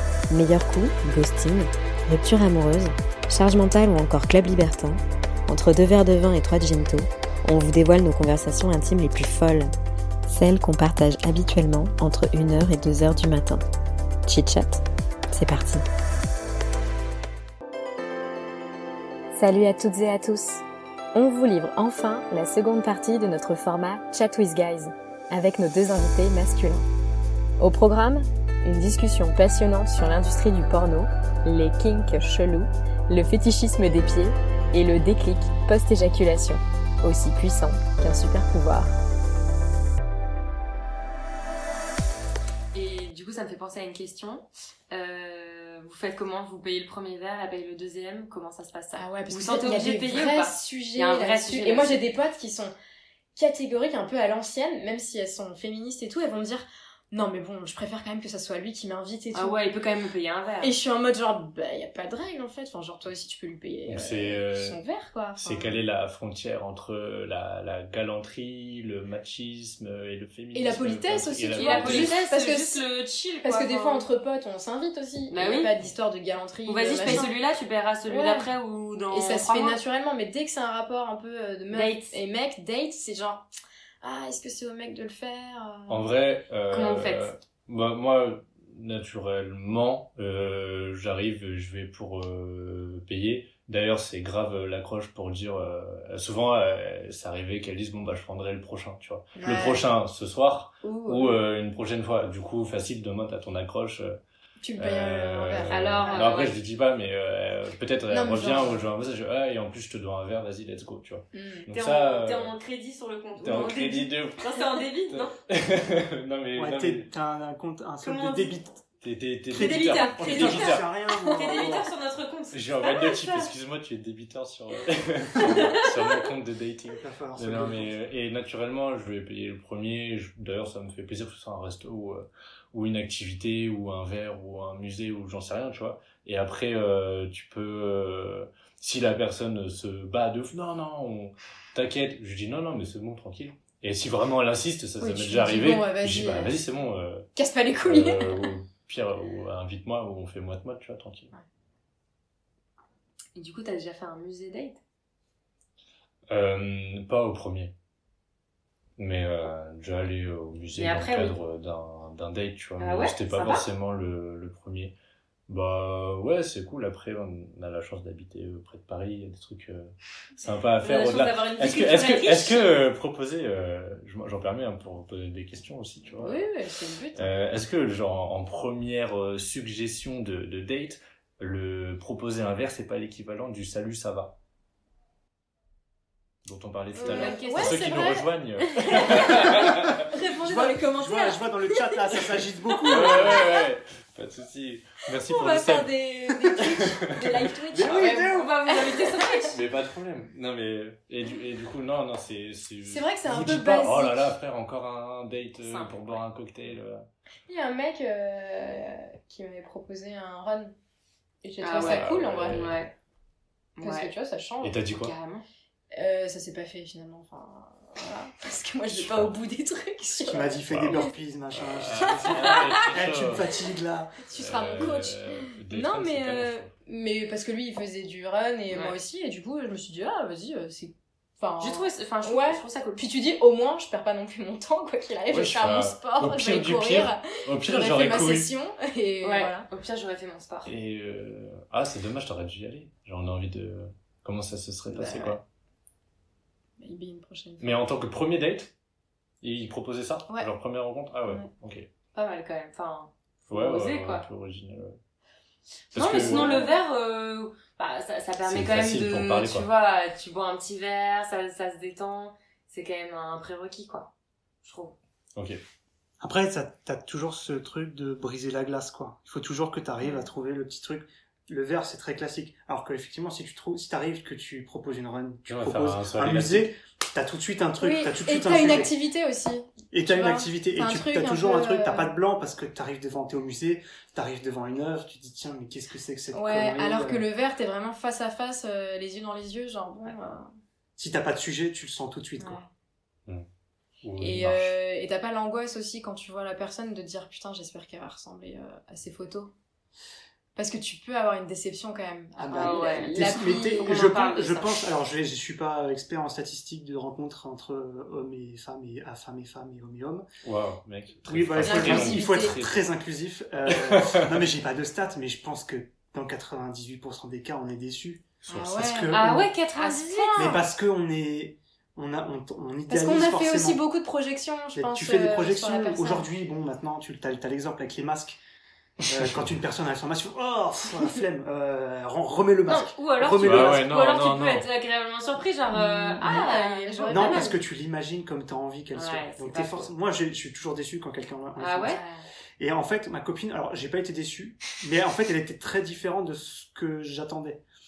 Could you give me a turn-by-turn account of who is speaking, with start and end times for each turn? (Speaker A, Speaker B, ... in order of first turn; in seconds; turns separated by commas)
Speaker A: 0.3-9.7, Speaker A: 10.3-13.6, Speaker A: 14.3-15.8, Speaker A: 19.4-20.6, Speaker A: 21.2-26.8, Speaker B: 24.5-24.8, Speaker A: 27.6-38.9, Speaker C: 42.7-52.0, Speaker B: 49.0-52.7, Speaker B: 53.4-59.6, Speaker C: 59.3-60.8, Speaker B: 60.6-65.8, Speaker D: 63.9-64.8, Speaker D: 65.4-72.2, Speaker B: 70.5-72.8, Speaker C: 71.6-74.1, Speaker B: 73.4-77.3, Speaker C: 75.3-75.7, Speaker C: 76.7-79.8, Speaker B: 78.1-78.5, Speaker B: 79.1-83.5, Speaker C: 81.7-82.2, Speaker B: 84.0-86.0, Speaker D: 85.9-104.2, Speaker C: 86.7-87.3, Speaker B: 99.4-99.9, Speaker B: 100.8-101.4, Speaker B: 104.6-106.4, Speaker D: 104.8-112.5, Speaker C: 105.7-106.6, Speaker B: 108.1-108.9, Speaker B: 111.3-111.7, Speaker C: 111.7-115.3, Speaker D: 113.4-114.5, Speaker D: 115.1-117.1, Speaker E: 116.6-118.8, Speaker C: 118.0-118.6, Speaker D: 119.0-120.9, Speaker E: 119.5-121.9, Speaker C: 119.5-123.5, Speaker D: 122.5-147.3, Speaker C: 125.4-126.2, Speaker E: 126.9-128.1, Speaker B: 145.0-146.6, Speaker B: 147.3-148.5, Speaker D: 147.8-151.3, Speaker C: 153.3-154.8, Speaker D: 156.3-157.7, Speaker D: 159.0-164.9, Speaker C: 160.8-161.4, Speaker C: 162.8-163.7, Speaker D: 165.5-176.5, Speaker C: 170.8-172.7, Speaker B: 176.2-177.3, Speaker D: 177.2-184.4, Speaker D: 186.4-190.1, Speaker B: 186.9-193.6, Speaker C: 187.0-187.9, Speaker E: 190.4-193.5, Speaker D: 192.9-195.9, Speaker B: 195.2-199.5, Speaker D: 196.6-197.5, Speaker E: 197.7-198.5, Speaker C: 197.8-199.6, Speaker D: 199.5-207.1, Speaker B: 202.8-204.4, Speaker B: 205.7-205.9, Speaker C: 205.7-205.9, Speaker B: 207.5-210.8, Speaker B: 211.4-212.7, Speaker C: 211.6-212.9, Speaker D: 211.8-212.8, Speaker C: 213.8-214.1, Speaker B: 213.8-214.8, Speaker D: 214.6-215.1, Speaker C: 215.0-215.4, Speaker B: 215.9-221.1, Speaker D: 218.9-219.3, Speaker E: 220.2-224.2, Speaker D: 220.7-223.7, Speaker B: 224.2-239.7, Speaker D: 224.3-226.7, Speaker C: 228.7-228.9, Speaker C: 231.6-233.0, Speaker D: 235.3-238.5, Speaker C: 239.2-240.7, Speaker D: 240.7-245.4, Speaker B: 244.9-245.4, Speaker B: 246.8-247.8, Speaker D: 247.6-248.7, Speaker D: 249.4-251.9, Speaker C: 252.1-254.3, Speaker D: 253.5-255.0, Speaker D: 255.9-256.6, Speaker C: 255.9-264.1, Speaker B: 256.2-256.7, Speaker D: 258.5-259.7, Speaker C: 264.6-265.0, Speaker D: 265.4-265.6, Speaker E: 266.2-278.9, Speaker B: 270.0-270.3, Speaker D: 275.5-276.7, Speaker B: 277.8-282.1, Speaker E: 279.9-287.3, Speaker B: 286.3-290.5, Speaker E: 291.0-292.6, Speaker D: 294.0-294.8, Speaker B: 294.2-299.5, Speaker B: 300.6-304.1, Speaker E: 302.4-310.3, Speaker C: 302.5-304.8, Speaker D: 310.4-312.8, Speaker E: 311.3-319.5, Speaker B: 311.6-312.6, Speaker D: 313.7-314.3, Speaker B: 318.5-320.6, Speaker C: 319.1-320.5, Speaker E: 320.4-323.8, Speaker B: 322.9-326.3, Speaker E: 324.7-328.4, Speaker E: 329.1-333.8, Speaker C: 332.7-337.6, Speaker D: 333.4-334.7, Speaker B: 335.7-337.6, Speaker E: 335.8-336.5, Speaker E: 337.1-342.0, Speaker C: 338.9-339.9, Speaker C: 341.6-342.0, Speaker B: 341.8-342.2, Speaker E: 342.6-347.6